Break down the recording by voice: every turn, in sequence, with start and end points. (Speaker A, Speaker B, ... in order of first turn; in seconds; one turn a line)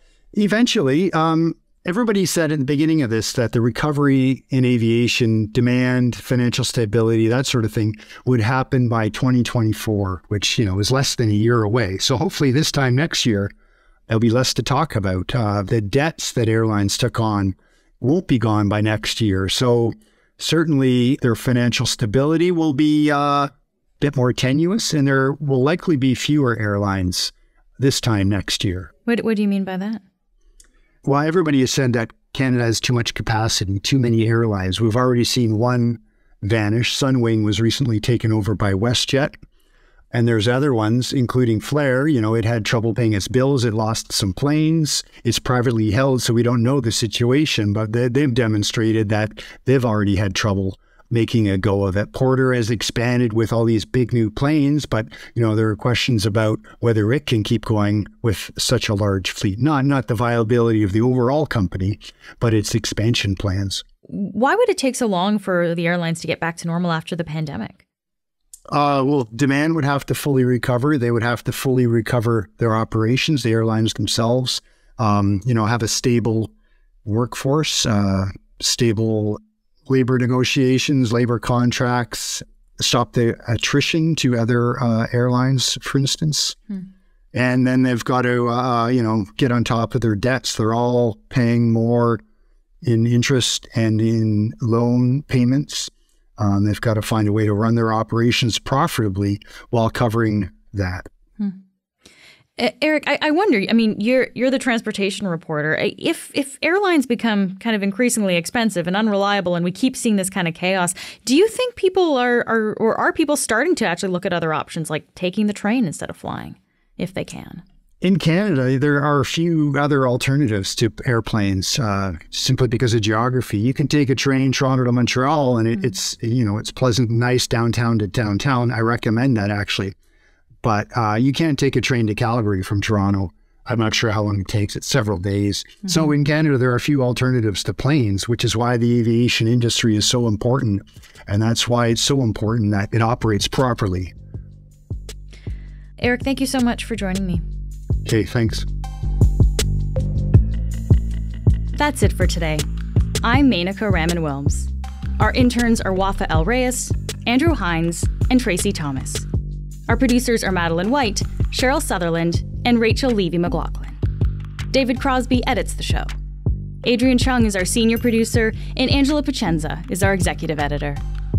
Speaker A: 0.3-13.5
Speaker A: 14.1-28.9
Speaker B: 29.1-30.0
Speaker A: 31.0-39.3
Speaker A: 40.1-63.8
Speaker B: 64.1-67.8
Speaker A: 68.7-76.5
Speaker A: 77.0-86.6
Speaker A: 87.3-92.2
Speaker A: 92.8-101.1
Speaker B: 102.6-117.6
Speaker A: 118.0-129.9
Speaker A: 130.6-144.1
Speaker B: 146.0-147.4
Speaker A: 148.1-148.7
Speaker B: 151.7-152.7
Speaker B: 153.2-159.3
Speaker B: 159.9-164.0
Speaker B: 164.7-166.1
Speaker B: 166.8-171.0